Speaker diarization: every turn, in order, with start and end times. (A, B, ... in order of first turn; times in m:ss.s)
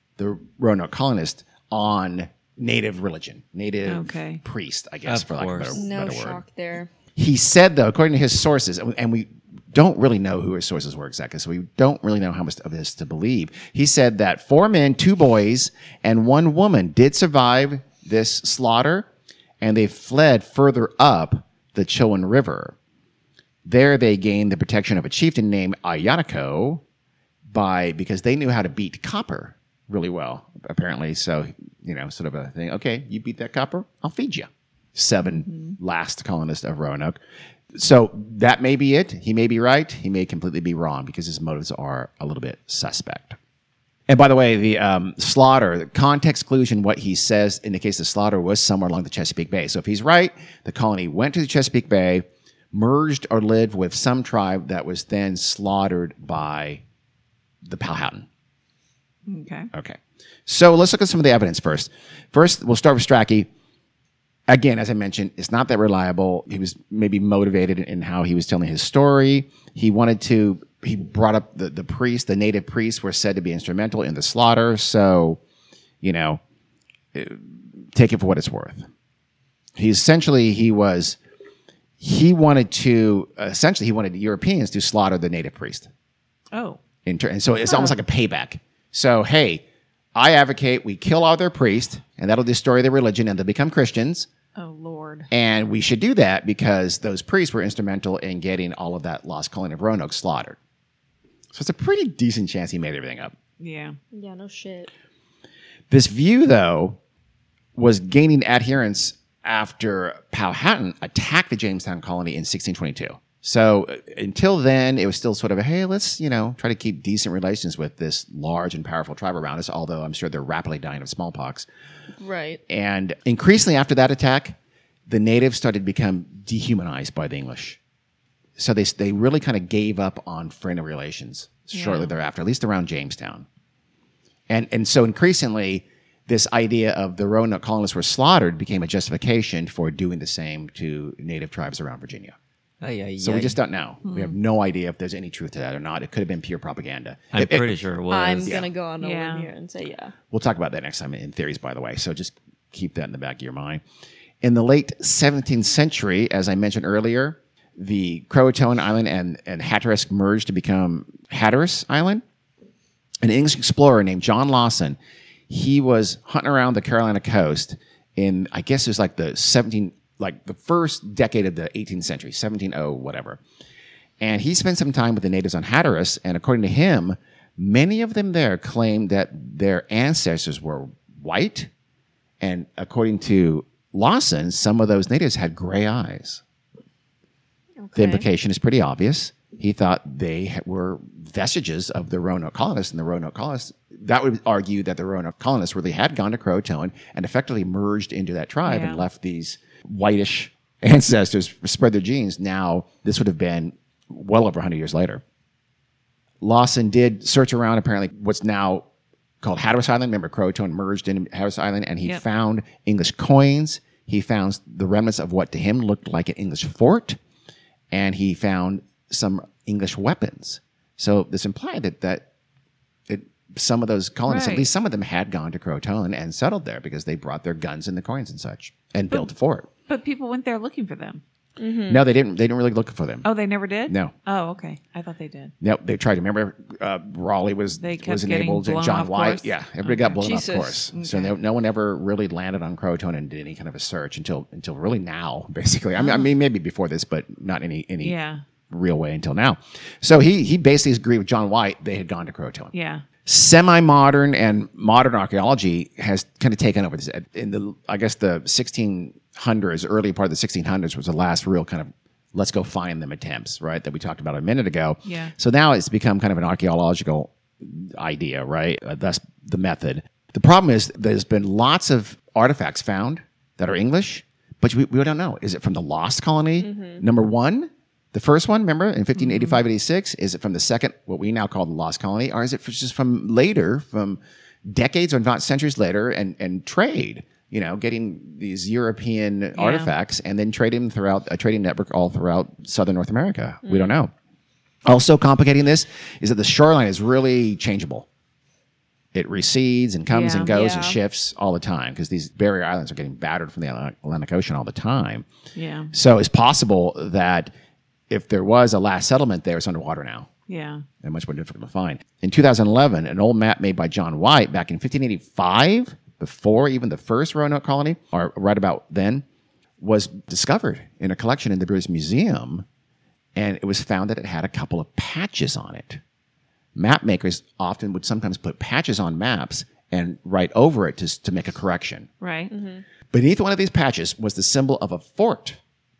0:00.2-0:06.4 A
0:03.9-0:04.4 B
0:05.1-0:05.8 C
0:05.8-0:06.9 D
0:07.2-0:19.1 A
0:19.6-0:22.8 A
0:23.6-0:26.8 A
0:27.5-0:37.2 A
0:35.2-0:35.8 B
0:37.7-0:43.4 A
0:44.1-0:56.8 A
0:57.6-0:58.3 A
0:59.3-0:59.7 B
0:59.7-1:03.5 A
1:04.5-1:15.4 A
1:16.0-1:16.4 A
1:17.1-1:18.9 A
1:19.8-1:21.2 A
1:22.0-1:25.9 A
1:26.5-1:26.8 B
1:27.0-1:34.3 A
1:27.7-1:28.0 B
1:34.6-1:35.3 B
1:35.3-1:40.6 A
1:41.5-1:43.4 A
1:43.6-1:44.0 B
1:44.1-1:44.9 D
1:45.9-1:47.0 A
1:47.8-2:01.7 A
2:02.2-2:02.6 D
2:02.7-2:07.8 A
2:08.6-2:13.5 A
2:11.7-2:12.1 B
2:14.5-2:22.4 A
2:22.8-2:23.6 C
2:23.2-2:27.7 A
2:24.0-2:24.4 B
2:27.3-2:28.6 C
2:28.1-2:30.2 D
2:29.0-2:29.5 B
2:30.3-2:33.8 A
2:34.4-2:42.2 A
2:43.2-2:45.0 A
2:45.5-2:53.4 A
2:54.2-3:01.7 A
3:02.4-3:06.4 A
3:07.8-3:08.3 D
3:08.0-3:25.2 A
3:18.6-3:19.0 B
3:26.4-3:28.9 A
3:29.4-3:37.2 A
3:37.9-3:42.3 A
3:43.1-3:49.7 A
3:44.3-3:44.7 B
3:49.9-3:51.2 B
3:51.6-3:52.1 D
3:51.9-3:53.3 A
3:53.2-3:55.5 B
3:53.9-3:54.1 A
3:55.6-4:08.2 A
3:57.8-4:00.4 B
4:00.2-4:00.8 D
4:00.9-4:01.3 B
4:06.0-4:06.3 B
4:08.0-4:08.4 B
4:08.7-4:12.7 A
4:12.7-4:13.0 B
4:13.2-4:54.1 A
4:25.0-4:25.3 B
4:36.6-4:37.0 D
4:39.2-4:39.6 B
4:49.6-4:49.9 B
4:53.6-4:54.0 D
4:54.9-4:58.1 A
4:59.1-5:05.3 A
5:00.1-5:00.6 B
5:00.5-5:01.0 D
5:05.6-5:05.9 B
5:05.9-5:07.5 A
5:08.1-5:10.3 A
5:10.5-5:10.8 B
5:11.0-5:19.2 A
5:19.8-5:22.6 A
5:23.4-5:26.0 A
5:26.8-5:32.1 A
5:32.2-5:32.5 B
5:32.5-5:32.8 D
5:33.1-5:35.6 A